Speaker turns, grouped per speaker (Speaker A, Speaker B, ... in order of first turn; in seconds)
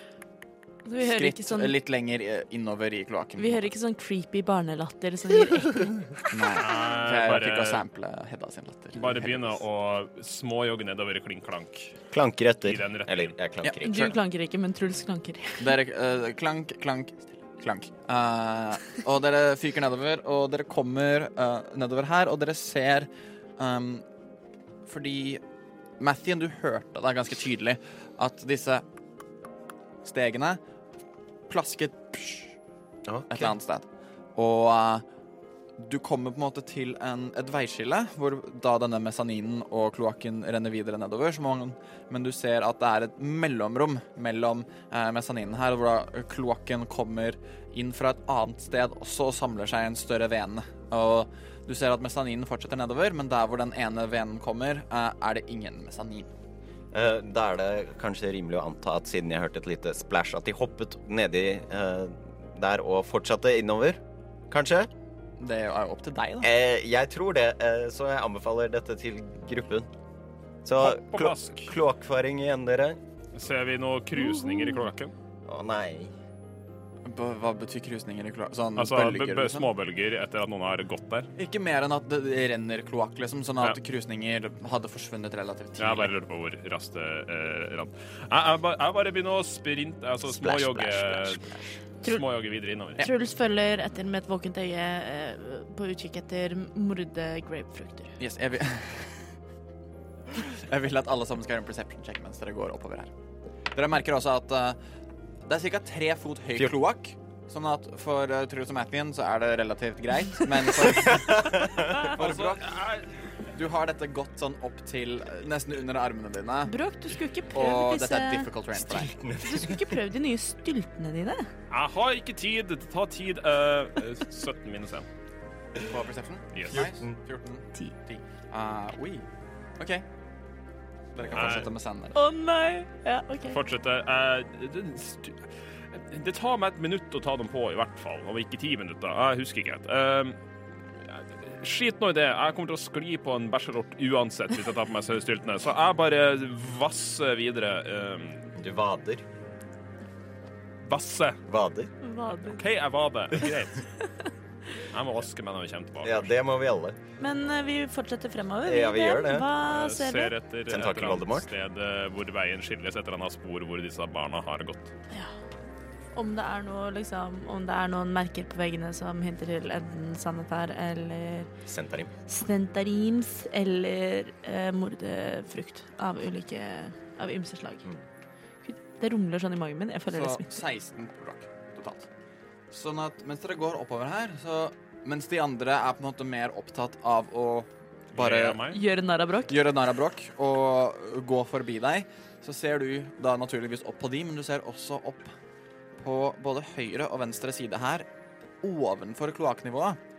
Speaker A: 0.8-1.8, 3.4-6.2, 13.8-15.7, 74.2-74.9, 93.0-98.2, 116.7-118.5, 119.4-121.5, 132.2-133.6, 152.0-152.6, 157.2-160.3, 166.1-171.5, 172.3-177.8, 178.6-180.6, 188.7-189.5
Speaker B: 1.0-3.7, 6.3-9.6, 13.6-14.1, 15.6-24.1, 24.9-25.4, 26.0-28.9, 30.0-30.6, 31.5-32.5, 33.3-35.0, 35.8-56.3, 65.4-66.5, 77.0-79.7, 81.4-86.1, 98.2-99.2, 100.3-103.1, 103.7-104.8, 105.5-111.5, 112.1-112.8, 113.5-116.8, 117.5-119.1, 125.8-129.3, 129.8-130.1, 131.1-132.2, 180.1-182.1, 182.7-188.6, 189.5-195.3, 196.0-198.1, 198.6-200.0
Speaker C: 6.6-7.8, 8.9-12.0, 12.6-13.3, 70.8-71.7, 73.3-75.1, 78.8-81.3, 85.8-91.5, 92.0-93.1, 111.8-113.1, 121.7-125.1, 126.5-126.8, 131.3-131.7, 133.5-140.4, 141.0-148.6, 150.8-151.4, 152.5-153.9, 154.8-156.3, 159.6-164.9, 188.1-188.8
Speaker D: 12.1-14.2, 33.0-33.5, 56.9-64.9, 66.4-69.9, 70.6-73.0, 75.5-76.1, 90.2-91.7, 110.8-112.1, 118.8-119.9, 126.7-127.2, 148.6-149.3, 151.5-151.9, 156.0-157.0, 158.7-159.5, 160.7-161.5, 171.7-172.1